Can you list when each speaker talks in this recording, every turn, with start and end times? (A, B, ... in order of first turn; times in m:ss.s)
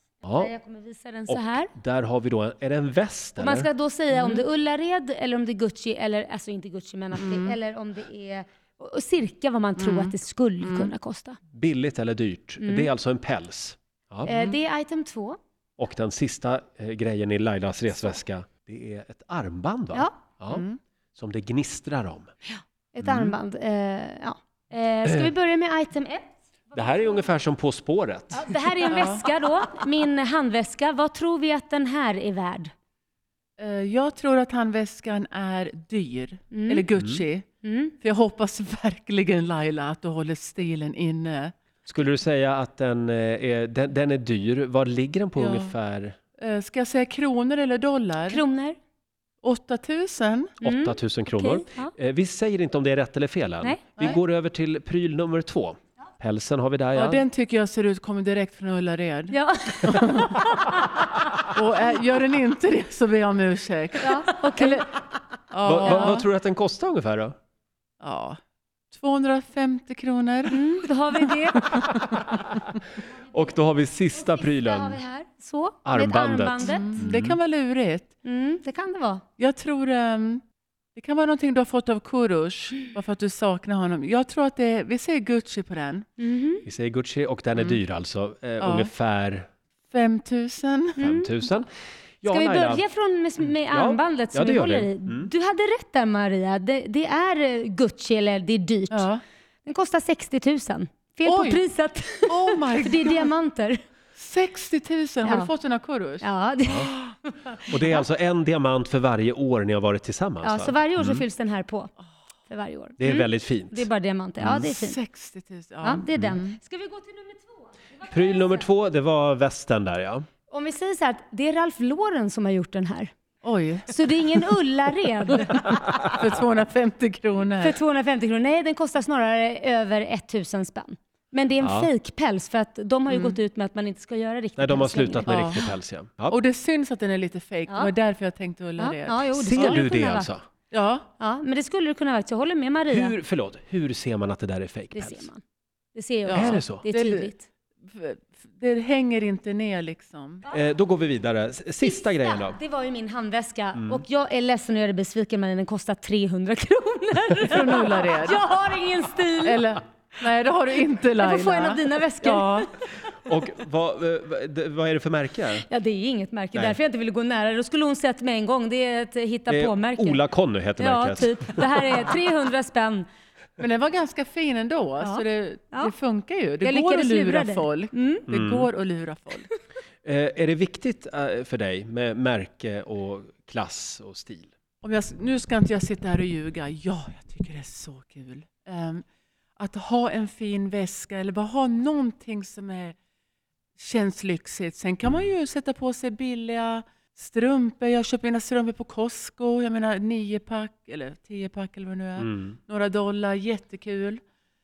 0:00.2-0:00.5 A
0:00.4-0:01.7 B
0:01.3-0:03.7 A
0:03.4-0:11.4 B
0:04.1-0:04.4 C
0:07.2-0:07.6 C
0:09.8-0:10.9 C
0:11.5-0:14.3 A
0:12.6-0:12.9 B
0:14.3-0:14.6 C
0:14.3-0:15.4 B
0:15.8-0:20.6 A
0:20.5-0:20.8 C
0:21.2-0:22.3 A
0:22.9-0:27.3 B
0:23.0-0:23.4 A
0:25.0-0:25.3 A
0:26.7-0:28.9 A
0:28.3-0:32.7 B
0:28.9-0:29.2 C
0:33.6-0:37.5 C
0:36.5-0:36.9 B
0:37.6-0:37.9 B
0:38.0-0:41.5 C
0:41.9-0:46.2 A
0:45.4-0:45.7 C
0:46.4-0:48.4 C
0:48.3-0:48.8 B
0:49.4-0:50.6 C
0:50.6-0:51.9 B
0:50.6-0:57.2 A
0:53.6-0:54.1 B
0:56.9-1:00.7 C
0:59.3-1:00.9 B
1:01.5-1:04.9 C
1:04.0-1:05.2 B
1:05.5-1:06.2 C
1:05.6-1:07.4 A
1:05.8-1:06.1 B
1:08.0-1:08.4 C
1:08.9-1:10.6 C
1:10.5-1:11.7 B
1:11.2-1:12.4 C
1:11.8-1:12.4 A
1:13.3-1:15.0 A
1:14.2-1:17.0 B
1:15.8-1:17.4 A
1:16.6-1:18.1 C
1:18.2-1:19.2 B
1:19.4-1:20.4 C
1:21.0-1:26.1 C
1:26.2-1:26.6 B
1:26.6-1:29.5 A
1:28.6-1:28.9 C
1:29.9-1:31.0 C
1:31.0-1:31.5 B
1:31.0-1:31.7 A
1:32.2-1:32.8 A
1:32.3-1:39.1 B
1:33.7-1:35.3 A
1:38.9-1:39.2 C
1:39.6-1:43.8 B
1:41.3-1:41.6 C
1:42.3-1:43.3 C
1:44.2-1:46.3 C
1:45.2-1:45.5 B
1:46.2-1:48.0 B
1:47.6-1:51.2 A
1:50.4-1:51.9 B
1:52.5-1:55.0 B
1:53.0-1:53.9 A
1:54.4-1:54.7 A
1:54.4-1:56.6 C
1:55.8-1:58.7 B
1:58.1-2:00.3 A
2:00.5-2:03.1 B
2:03.4-2:03.9 C
2:03.9-2:05.7 B
2:05.5-2:07.8 C
2:07.6-2:15.7 B
2:11.6-2:11.9 A
2:13.1-2:13.4 C
2:14.6-2:16.4 A
2:15.2-2:15.6 C
2:16.3-2:19.8 C
2:18.8-2:20.3 B
2:19.3-2:20.4 A
2:20.7-2:21.1 C
2:21.2-2:23.2 B
2:22.9-2:25.3 A
2:24.9-2:25.4 B
2:26.0-2:27.4 B
2:26.2-2:30.5 C
2:26.3-2:26.8 A
2:30.5-2:32.6 A
2:31.8-2:39.6 B
2:33.8-2:34.0 A
2:37.4-2:38.4 C
2:39.4-2:42.7 C
2:41.2-2:42.7 B
2:43.2-2:45.6 A
2:45.5-2:50.2 B
2:49.5-2:52.0 A
2:50.8-2:53.1 B
2:53.6-2:59.5 C
2:55.0-2:55.9 B
2:56.6-2:58.2 B
2:58.3-2:58.7 A
3:00.0-3:04.5 A
3:04.8-3:09.0 C
3:09.6-3:13.0 C
3:13.8-3:24.2 C
3:22.2-3:22.6 A